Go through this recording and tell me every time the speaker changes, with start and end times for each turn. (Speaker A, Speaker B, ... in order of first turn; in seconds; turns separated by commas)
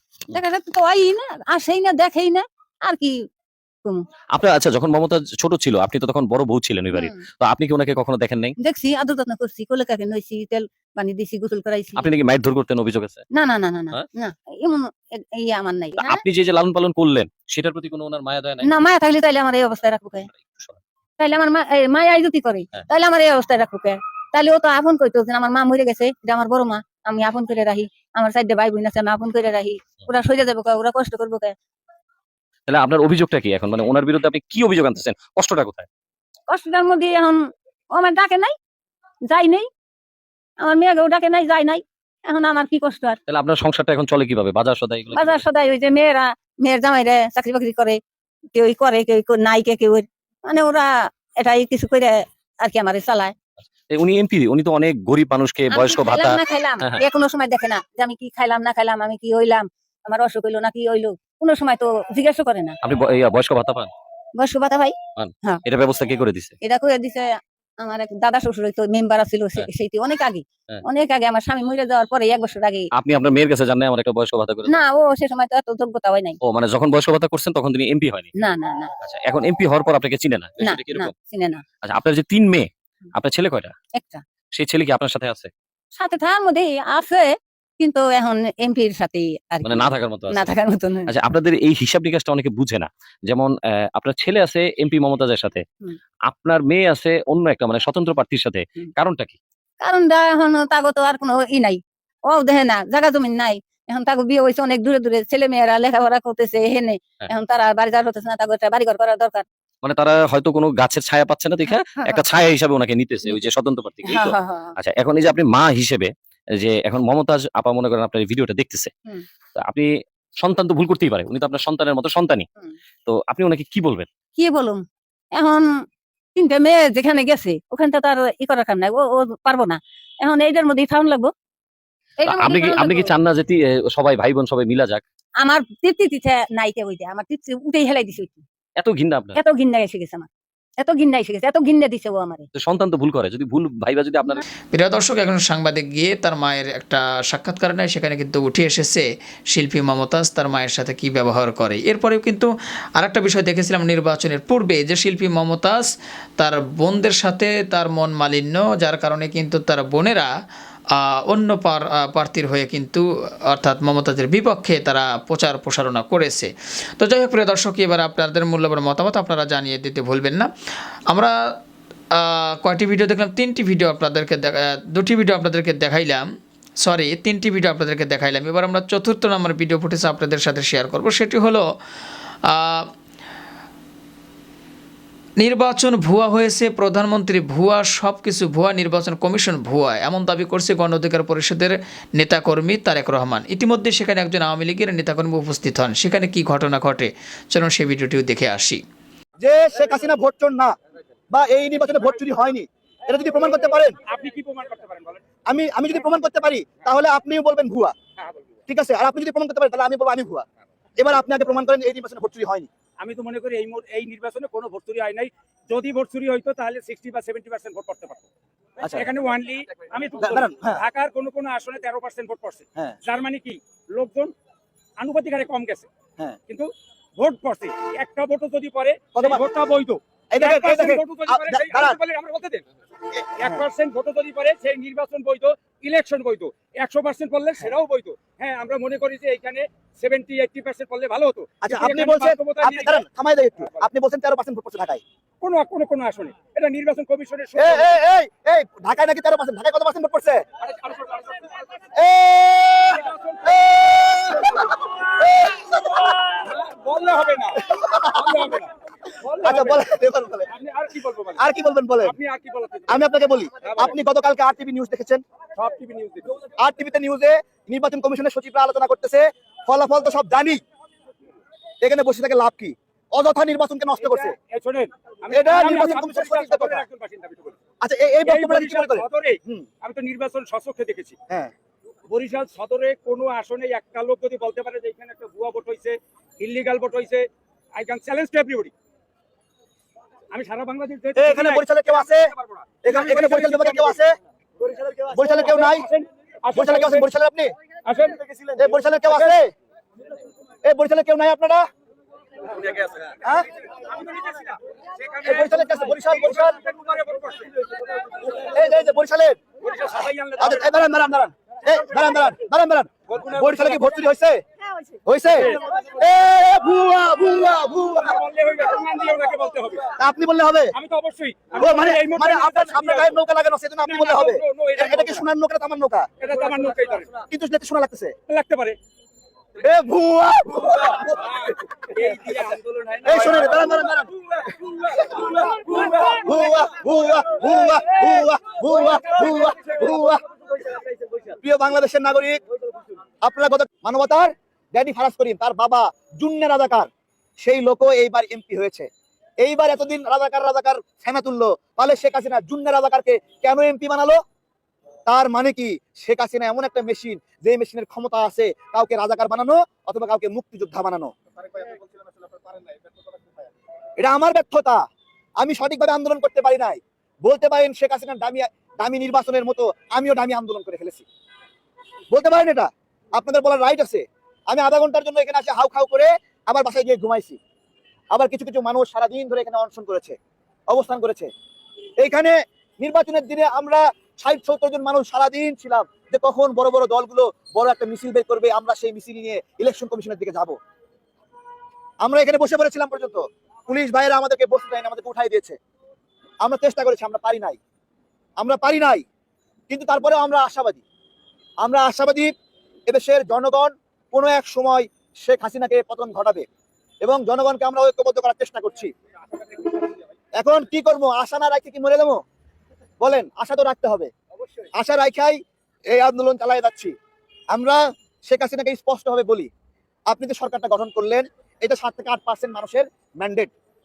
Speaker A: 0.3-3.2, Speaker B: 4.3-8.6, Speaker A: 6.9-7.2, Speaker A: 8.6-12.1, Speaker B: 11.9-13.2, Speaker A: 13.3-16.2, Speaker B: 16.0-18.7, Speaker A: 18.6-20.3, Speaker B: 20.3-20.8, Speaker A: 21.2-31.6, Speaker B: 32.7-35.9, Speaker A: 36.5-38.5, Speaker A: 39.3-39.7, Speaker A: 40.6-43.2, Speaker B: 43.3-45.4, Speaker A: 45.1-48.0, Speaker A: 48.5-53.3, Speaker B: 53.9-57.0, Speaker A: 55.7-62.8, Speaker B: 62.8-63.9, Speaker A: 64.4-65.6, Speaker B: 65.2-66.5, Speaker A: 66.6-72.9, Speaker B: 73.0-74.8, Speaker A: 74.7-76.4, Speaker B: 76.4-78.3, Speaker A: 78.4-78.9, Speaker B: 79.0-81.1, Speaker A: 80.6-81.6, Speaker B: 81.8-83.7, Speaker A: 84.0-84.2, Speaker B: 84.5-85.5, Speaker A: 86.0-91.1, Speaker B: 89.6-90.5, Speaker B: 91.1-95.6, Speaker B: 96.3-99.4, Speaker A: 99.8-109.4, Speaker B: 109.8-118.9, Speaker A: 114.0-114.7, Speaker B: 119.6-119.9, Speaker B: 120.4-122.5, Speaker B: 123.0-124.1, Speaker A: 124.4-125.8, Speaker A: 126.3-131.3, Speaker A: 132.2-133.1, Speaker B: 132.2-135.0, Speaker A: 135.4-138.4, Speaker B: 138.8-139.4, Speaker A: 139.3-140.3, Speaker A: 140.8-142.5, Speaker B: 142.5-144.4, Speaker C: 144.7-155.9, Speaker C: 156.4-160.3, Speaker C: 160.9-170.5, Speaker C: 171.1-171.5, Speaker C: 172.1-176.2, Speaker C: 176.8-181.6, Speaker C: 182.5-182.9, Speaker C: 185.4-198.8, Speaker D: 199.4-200.8, Speaker D: 201.3-203.9, Speaker E: 204.1-205.2, Speaker D: 205.5-207.9, Speaker D: 208.7-210.4, Speaker D: 211.0-212.7, Speaker E: 213.0-218.3, Speaker E: 218.8-224.3, Speaker D: 218.8-219.1, Speaker D: 220.2-220.8, Speaker E: 225.0-225.9, Speaker E: 226.5-232.6, Speaker D: 229.2-229.4, Speaker D: 230.3-232.0, Speaker E: 233.4-243.1, Speaker D: 241.6-245.0, Speaker E: 245.4-247.9, Speaker D: 247.5-250.4, Speaker E: 250.6-251.4, Speaker D: 252.0-256.0, Speaker E: 252.9-253.8, Speaker E: 256.4-258.7, Speaker D: 257.7-258.4, Speaker E: 259.2-259.8, Speaker D: 259.4-260.5, Speaker E: 260.5-261.4, Speaker D: 261.4-262.1, Speaker E: 262.0-263.0, Speaker D: 262.9-265.2, Speaker E: 263.6-263.9, Speaker E: 265.6-266.3, Speaker D: 266.6-270.6, Speaker D: 271.8-274.3, Speaker E: 274.0-277.6, Speaker D: 275.3-276.8, Speaker D: 277.8-279.7, Speaker E: 278.2-281.1, Speaker E: 282.1-288.7, Speaker E: 290.3-294.0, Speaker D: 291.2-292.3, Speaker D: 292.8-294.1, Speaker E: 294.9-297.1, Speaker D: 295.1-295.9, Speaker D: 296.5-297.5, Speaker E: 297.9-298.5, Speaker D: 298.6-299.5, Speaker D: 300.6-301.6, Speaker E: 302.6-302.9, Speaker E: 303.9-307.5, Speaker D: 305.2-306.5, Speaker D: 308.3-309.4, Speaker E: 309.6-310.7, Speaker D: 310.4-314.4, Speaker E: 313.1-314.0, Speaker D: 315.1-318.2, Speaker E: 315.3-315.8, Speaker E: 318.0-319.9, Speaker D: 320.0-320.7, Speaker E: 320.7-323.2, Speaker D: 321.5-326.1, Speaker E: 323.8-325.2, Speaker E: 326.2-327.2, Speaker D: 327.3-328.1, Speaker E: 328.3-328.8, Speaker D: 329.6-331.3, Speaker E: 331.1-333.7, Speaker D: 333.1-334.1, Speaker E: 334.9-336.2, Speaker D: 335.7-340.2, Speaker E: 339.0-339.7, Speaker D: 341.4-342.4, Speaker D: 343.2-346.9, Speaker D: 347.4-348.9, Speaker D: 349.4-354.2, Speaker D: 355.1-361.1, Speaker D: 364.0-364.8, Speaker D: 365.4-371.0, Speaker D: 372.1-377.4, Speaker D: 378.1-380.1, Speaker D: 380.7-381.3, Speaker D: 382.0-390.6, Speaker D: 392.0-395.6, Speaker D: 396.4-397.6, Speaker D: 398.4-399.0, Speaker D: 399.7-400.8, Speaker D: 401.6-402.3, Speaker D: 402.9-406.4, Speaker D: 407.0-408.9, Speaker D: 410.4-412.2, Speaker D: 413.0-414.1, Speaker D: 414.8-416.9, Speaker D: 417.5-419.5, Speaker D: 420.1-423.5